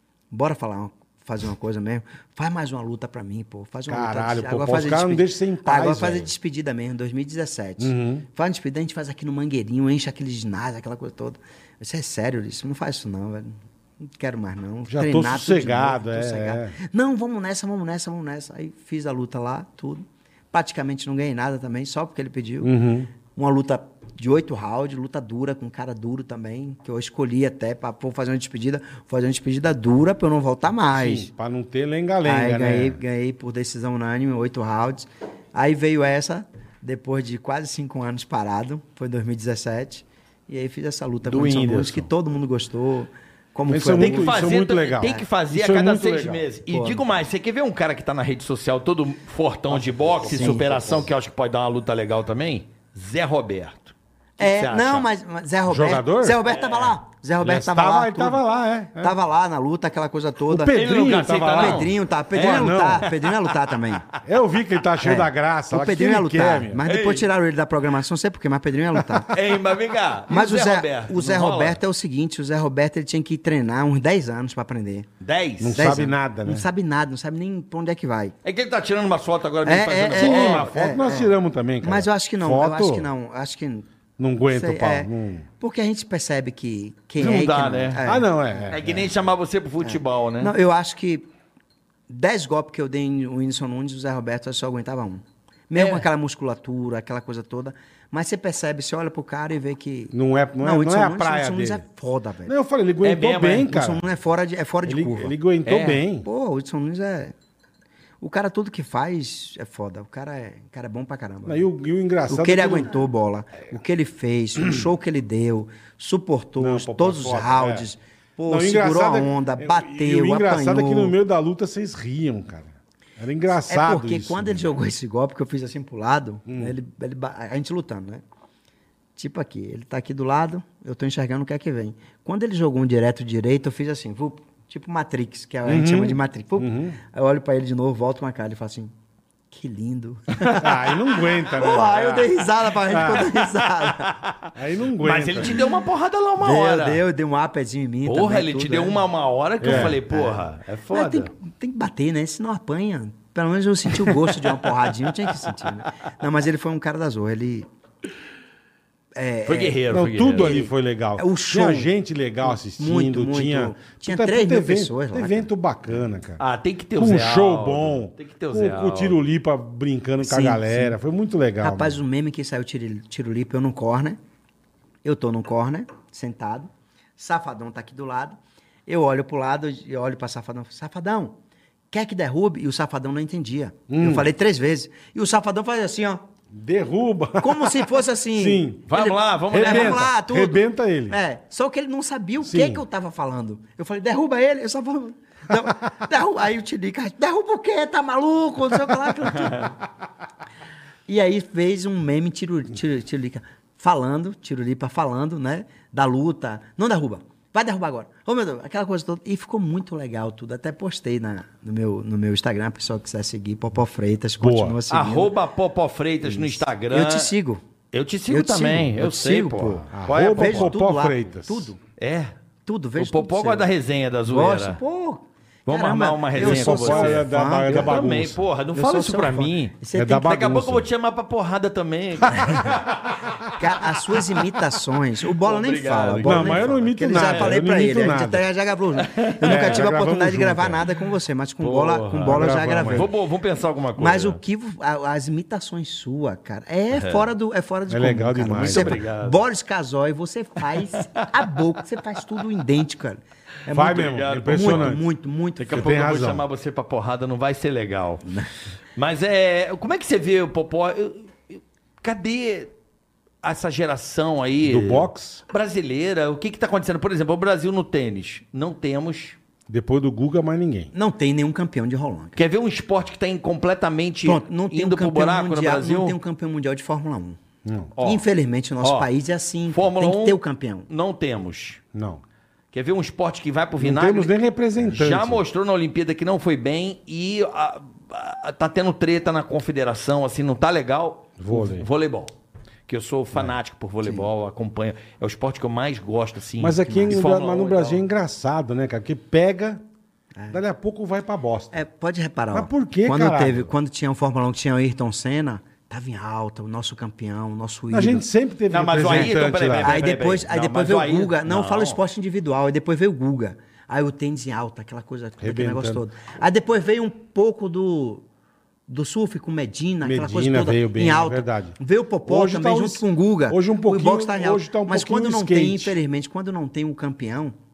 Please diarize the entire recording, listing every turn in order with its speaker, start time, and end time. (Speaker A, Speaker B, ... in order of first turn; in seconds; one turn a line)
Speaker A: 0.3-22.7
Speaker B: 3.9-6.3
Speaker B: 7.8-8.3
Speaker B: 14.9-16.8
Speaker B: 22.6-23.1
Speaker A: 23.3-31.3
Speaker B: 30.9-33.0
Speaker A: 32.2-44.5
Speaker C: 41.3-42.0
Speaker B: 43.7-46.5
Speaker C: 44.0-55.1
Speaker A: 46.7-47.0
Speaker B: 49.7-51.0
Speaker A: 50.2-51.0
Speaker A: 54.4-58.4
Speaker B: 55.7-56.4
Speaker C: 56.5-57.0
Speaker B: 57.4-59.1
Speaker A: 59.0-60.8
Speaker B: 60.5-63.1
Speaker C: 60.7-64.2
Speaker A: 61.5-64.1
Speaker B: 64.2-66.8
Speaker A: 65.0-69.3
Speaker C: 66.8-67.3
Speaker C: 69.2-71.8
Speaker A: 70.3-75.1
Speaker C: 75.2-76.1
Speaker B: 75.6-76.7
Speaker A: 75.7-78.3
Speaker C: 78.4-81.0
Speaker A: 79.7-81.3
Speaker B: 80.2-83.1
Speaker A: 81.8-83.9
Speaker B: 84.2-85.5
Speaker A: 84.5-88.6
Speaker C: 87.2-88.0
Speaker B: 88.0-89.1
Speaker C: 88.7-90.5
Speaker A: 89.8-91.3
Speaker A: 92.1-102.5
Speaker C: 95.8-96.0
Speaker B: 100.1-101.8
Speaker B: 102.5-104.0
Speaker C: 103.0-103.7
Speaker A: 103.7-105.3
Speaker B: 104.8-106.3
Speaker C: 105.7-106.0
Speaker A: 106.2-107.3
Speaker A: 108.2-111.7
Speaker B: 111.5-112.9
Speaker A: 112.3-121.2
Speaker B: 116.6-117.9
Speaker B: 118.5-124.8
Speaker A: 123.7-128.2
Speaker B: 126.5-126.8
Speaker A: 129.2-138.9
Speaker B: 135.7-137.0
Speaker A: 139.5-144.2
Speaker B: 140.5-143.3
Speaker C: 143.0-147.0
Speaker B: 144.6-145.7
Speaker A: 146.4-149.0
Speaker C: 148.1-151.3
Speaker B: 149.6-150.0
Speaker A: 149.6-157.7
Speaker C: 154.1-155.5
Speaker A: 159.2-159.8
Speaker C: 159.5-160.6
Speaker B: 159.9-166.4
Speaker A: 160.3-161.9
Speaker A: 162.5-165.5
Speaker C: 166.4-169.2
Speaker B: 167.0-172.0
Speaker A: 170.2-171.0
Speaker A: 171.6-174.2
Speaker A: 175.0-181.4
Speaker A: 181.9-186.2
Speaker B: 183.9-184.3
Speaker B: 186.5-188.9
Speaker A: 187.4-199.7
Speaker C: 188.9-190.1
Speaker B: 189.5-191.2
Speaker B: 192.4-192.8
Speaker C: 199.3-199.7
Speaker A: 201.1-215.3
Speaker B: 214.4-214.8
Speaker C: 214.9-217.3
Speaker A: 216.2-217.6
Speaker C: 217.9-220.7
Speaker A: 218.3-221.8
Speaker B: 219.9-221.7
Speaker C: 222.0-222.3
Speaker A: 222.7-223.7
Speaker C: 223.0-224.8
Speaker A: 224.3-228.0
Speaker C: 225.7-234.5
Speaker B: 226.3-228.4
Speaker A: 228.8-230.3
Speaker B: 229.9-230.9
Speaker A: 233.6-243.1
Speaker C: 235.3-237.6
Speaker B: 236.2-238.4
Speaker C: 239.0-239.8
Speaker B: 239.4-240.8
Speaker C: 241.6-244.4
Speaker B: 242.3-243.1
Speaker A: 244.0-255.9
Speaker C: 246.9-247.3
Speaker B: 247.9-249.0
Speaker C: 248.6-249.4
Speaker C: 250.6-251.3
Speaker B: 253.7-255.0
Speaker C: 253.9-255.0
Speaker C: 255.6-258.3
Speaker B: 255.7-256.5
Speaker C: 259.0-262.7
Speaker C: 263.4-269.4
Speaker B: 264.6-265.4
Speaker B: 269.7-270.9
Speaker A: 270.9-272.4
Speaker C: 272.4-276.2
Speaker A: 274.2-277.4
Speaker B: 277.6-277.9
Speaker C: 278.0-278.2
Speaker A: 278.0-280.9
Speaker C: 278.8-279.1
Speaker C: 279.7-281.8
Speaker B: 281.9-282.2
Speaker C: 282.7-292.3
Speaker B: 283.8-285.4
Speaker B: 291.4-291.9
Speaker C: 292.9-298.0
Speaker B: 296.6-299.8
Speaker B: 300.5-301.8
Speaker A: 301.7-308.2
Speaker B: 302.5-303.7
Speaker B: 307.9-310.0
Speaker C: 308.7-312.0
Speaker A: 309.8-318.2
Speaker B: 315.4-316.0
Speaker A: 318.9-327.5
Speaker B: 320.0-325.9